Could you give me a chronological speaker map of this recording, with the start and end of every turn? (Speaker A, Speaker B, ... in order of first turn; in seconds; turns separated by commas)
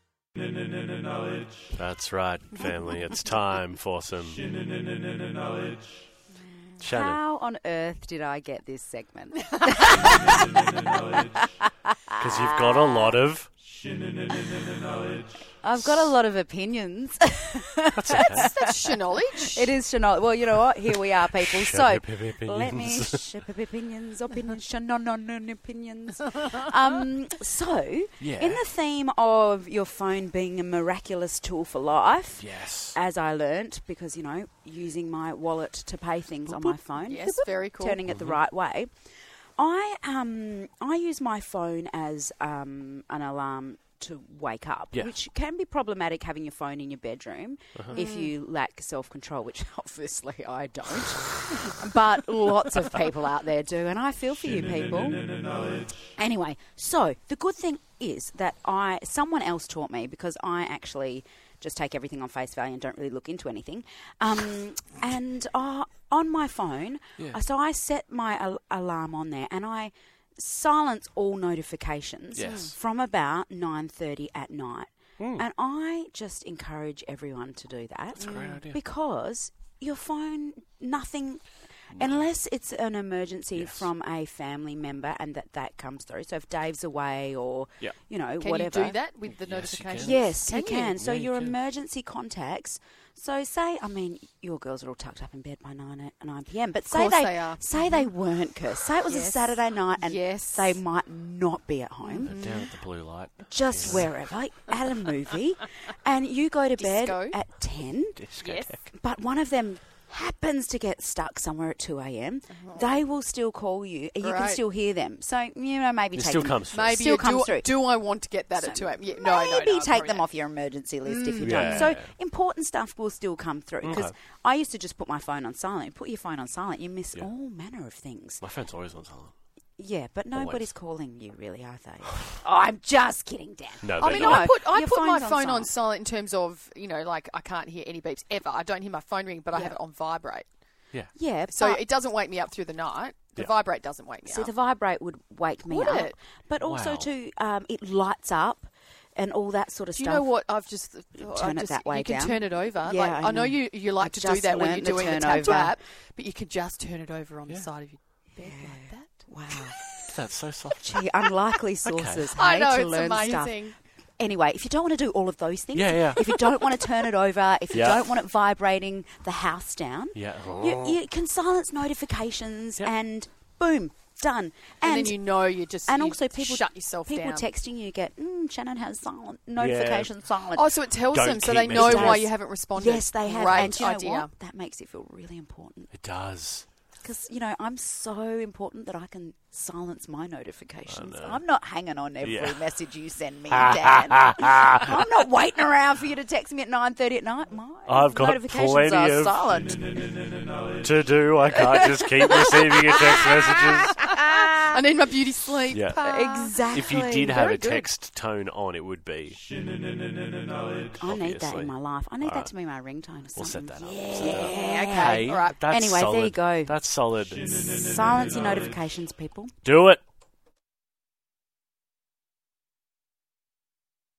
Speaker A: 1.7-4.5, Speaker B: 6.8-13.2, Speaker A: 6.8-7.2, Speaker A: 12.2-13.5, Speaker B: 14.3-14.8, Speaker B: 15.6-38.9, Speaker A: 18.0-18.5, Speaker C: 18.1-19.7, Speaker A: 21.4-23.2, Speaker A: 28.2-28.6, Speaker A: 32.4-33.0, Speaker A: 36.5-36.8, Speaker C: 37.0-38.0, Speaker A: 38.1-38.4, Speaker B: 39.6-55.6, Speaker C: 47.9-48.3, Speaker B: 56.1-89.0, Speaker A: 72.4-72.8, Speaker C: 72.4-72.7, Speaker A: 75.2-75.4, Speaker A: 78.2-78.8, Speaker C: 78.2-78.6, Speaker A: 81.9-82.3, Speaker A: 83.5-83.9, Speaker C: 88.4-91.0, Speaker A: 89.4-90.2, Speaker B: 90.0-102.3, Speaker A: 91.0-91.6, Speaker C: 96.9-98.1, Speaker C: 99.1-100.8, Speaker C: 102.0-102.7, Speaker A: 102.2-104.1, Speaker B: 103.5-108.3, Speaker C: 106.8-107.4, Speaker A: 108.2-108.9, Speaker C: 108.4-108.8, Speaker B: 108.9-117.8, Speaker C: 112.6-113.0, Speaker C: 114.2-114.6, Speaker A: 116.2-117.0, Speaker C: 116.7-120.2, Speaker B: 118.6-128.4, Speaker C: 121.0-122.0, Speaker A: 121.4-122.1, Speaker A: 123.8-124.1, Speaker A: 128.4-129.3, Speaker B: 129.8-135.7, Speaker A: 130.3-130.7, Speaker A: 133.8-134.5, Speaker C: 134.0-140.5, Speaker B: 141.1-141.8, Speaker C: 141.5-144.5, Speaker B: 144.3-150.3, Speaker C: 145.7-146.2, Speaker A: 146.7-147.1, Speaker C: 149.9-159.1, Speaker B: 151.2-155.8, Speaker B: 158.4-159.8, Speaker A: 160.1-161.0, Speaker B: 160.8-163.6, Speaker A: 161.8-162.3, Speaker C: 162.4-163.8, Speaker B: 164.2-175.3, Speaker A: 165.7-166.4, Speaker A: 167.7-168.1, Speaker A: 170.2-171.0, Speaker C: 174.8-177.5, Speaker B: 175.8-180.7, Speaker A: 179.6-180.1, Speaker C: 180.5-184.3, Speaker A: 181.1-182.3, Speaker B: 181.7-185.9, Speaker A: 185.9-186.7, Speaker B: 187.0-199.8, Speaker A: 190.9-191.4, Speaker A: 192.2-192.6, Speaker A: 193.5-194.9, Speaker A: 197.9-199.4, Speaker A: 200.8-204.0, Speaker B: 201.8-204.7, Speaker C: 204.7-207.8, Speaker A: 205.7-206.0, Speaker B: 206.0-207.8, Speaker A: 206.7-209.4, Speaker A: 211.0-212.5, Speaker B: 211.0-216.8, Speaker A: 213.3-217.4, Speaker C: 214.2-215.6, Speaker B: 217.4-219.5, Speaker A: 219.7-220.0